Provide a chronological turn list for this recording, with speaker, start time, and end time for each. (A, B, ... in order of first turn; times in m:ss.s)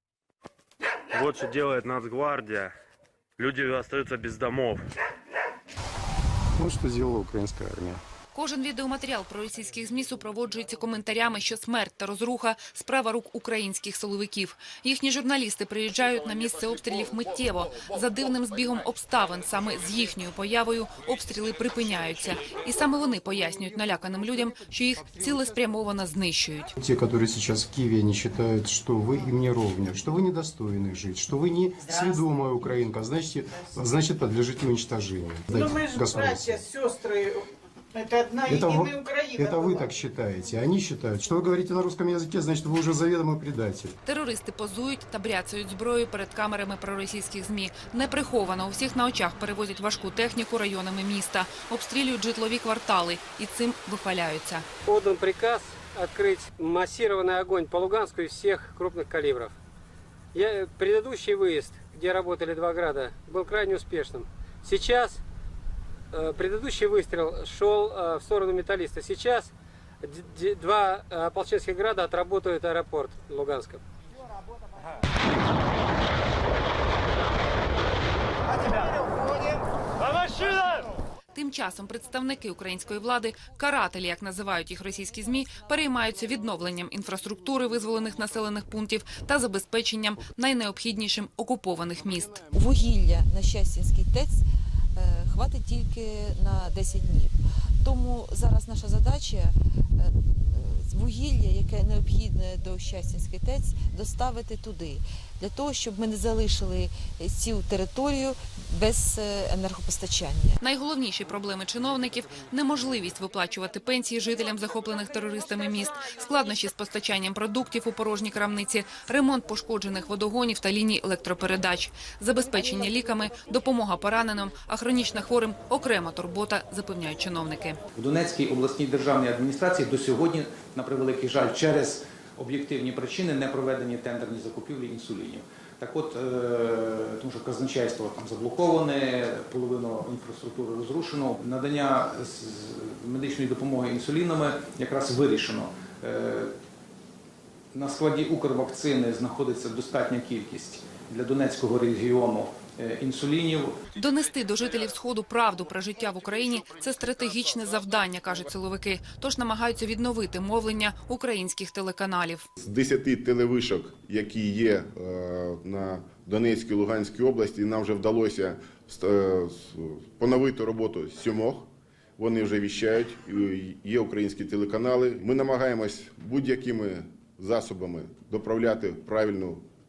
0:01.1-0:02.7 A
0:03.4-0:04.9 A
0:06.6-0:08.0 B
0:08.3-0:26.7 C
0:26.8-0:36.6 B
0:35.5-0:39.9 D
0:38.5-0:44.0 B
0:44.0-0:54.7 C
0:54.9-0:59.5 E
1:00.3-1:05.2 E
1:06.1-1:09.5 E
1:10.0-1:13.8 E
1:21.3-1:32.4 C
1:32.4-1:34.4 F
1:35.0-1:50.6 F
1:50.6-2:07.8 C
2:08.0-2:26.5 G
2:27.7-2:33.8 G
2:33.9-2:42.5 C
2:42.6-2:59.7 H